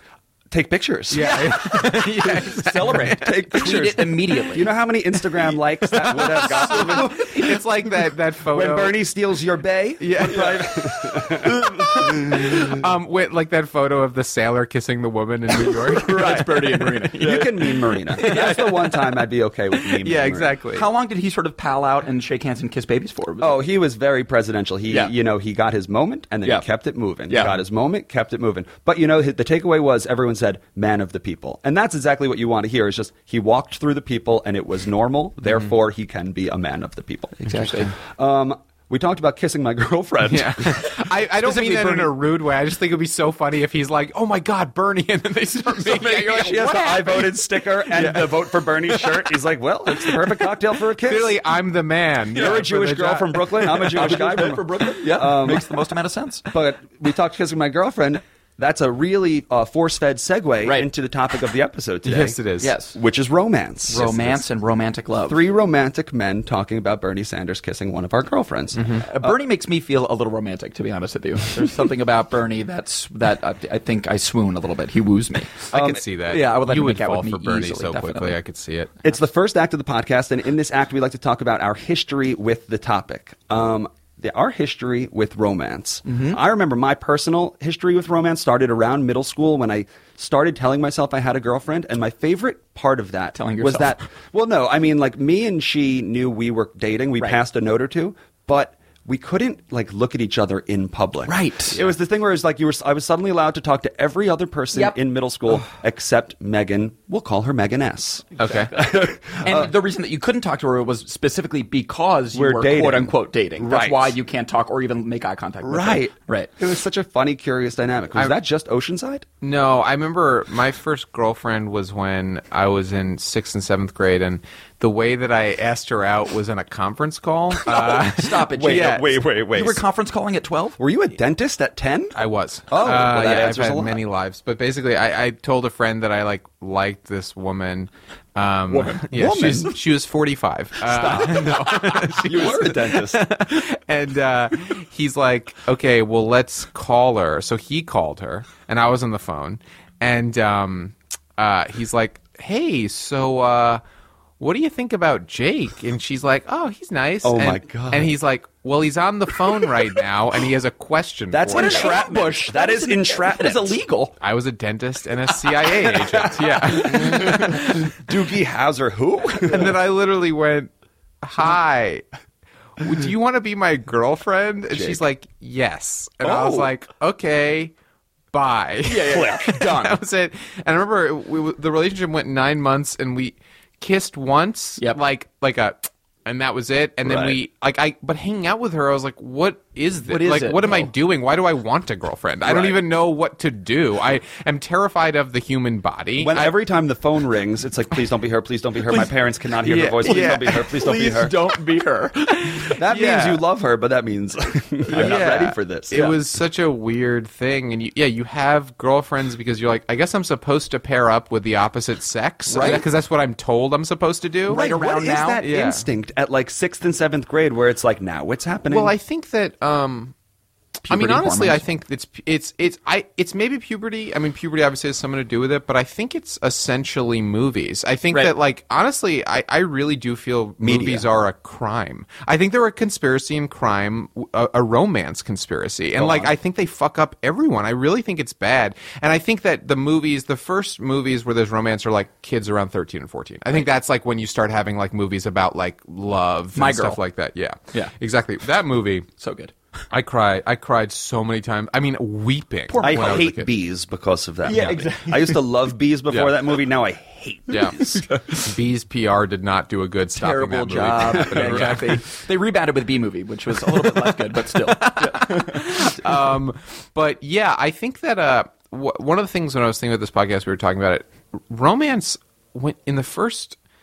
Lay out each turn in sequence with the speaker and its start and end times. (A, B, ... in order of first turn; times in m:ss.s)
0:00.5-0:07.5 A
0:01.1-0:03.7 B
0:02.8-0:04.7 C
0:06.0-0:09.0 B
0:06.0-0:07.5 C
0:08.5-0:12.6 A
0:10.0-0:16.6 B
0:11.4-0:11.9 C
0:16.0-0:18.7 C
0:16.1-0:20.6 A
0:18.2-0:18.6 B
0:20.0-0:20.9 B
0:20.7-0:23.6 C
0:23.4-0:40.9 A
0:27.3-0:27.6 C
0:37.5-0:38.0 C
0:40.3-0:47.4 B
0:41.4-0:42.1 C
0:45.7-0:47.2 C
0:46.5-0:51.4 A
0:51.0-0:53.4 B
0:52.4-0:55.7 A
0:53.6-0:56.4 C
0:56.5-1:04.4 A
1:00.6-1:00.9 C
1:02.0-1:02.7 B
1:02.6-1:03.0 C
1:03.9-1:05.4 C
1:05.3-1:09.4 A
1:08.8-1:09.0 B
1:09.1-1:15.7 C
1:15.7-1:19.0 B
1:15.7-1:16.0 A
1:16.3-1:18.4 C
1:19.0-1:49.7 A
1:26.1-1:26.4 C
1:33.4-1:34.0 C
1:41.3-1:41.8 C
1:48.4-1:48.7 B
1:49.3-1:56.5 C
1:52.3-1:54.2 A
1:55.6-1:59.2 A
1:59.4-2:09.1 B
2:07.7-2:09.0 C
2:07.7-2:09.8 A
2:09.5-2:10.8 C
2:10.8-2:12.2 A
2:12.2-2:33.8 B
2:12.7-2:14.0 A
2:18.7-2:19.0 C
2:19.0-2:19.8 A
2:20.8-2:23.2 A
2:34.4-2:42.0 B
2:37.2-2:38.2 A
2:41.3-2:43.8 A
2:41.5-2:44.1 C
2:44.2-2:48.0 B
2:45.8-2:49.8 A
2:49.5-2:50.7 B
2:51.2-2:52.0 B
2:52.8-2:57.7 B
2:54.7-2:55.0 A
2:56.2-2:56.7 C
2:58.3-3:16.5 B
2:58.9-3:00.0 C
3:07.0-3:07.4 A
3:10.1-3:10.9 C
3:12.4-3:12.8 A
3:16.2-3:21.4 A
3:19.7-3:22.6 C
3:19.7-3:20.6 B
3:22.5-3:23.4 B
3:22.7-3:26.2 A
3:24.9-3:25.2 C
3:24.9-3:34.6 B
3:32.5-3:32.8 C
3:32.5-3:32.8 A
3:34.5-3:35.4 C
3:34.5-3:39.0 A
3:35.4-3:35.9 B
3:38.7-3:40.1 B
3:40.8-3:41.6 C
3:40.9-4:09.1 B
3:50.6-3:51.1 A
3:56.0-3:56.3 A
4:06.6-4:07.0 C
4:09.2-4:09.5 C
4:09.9-4:13.5 B
4:12.7-4:13.3 C
4:12.8-4:18.0 A
4:14.5-4:15.4 C
4:17.5-4:22.0 B
4:17.8-4:18.4 C
4:20.2-4:25.7 C
4:21.0-4:21.8 A
4:24.7-4:33.6 B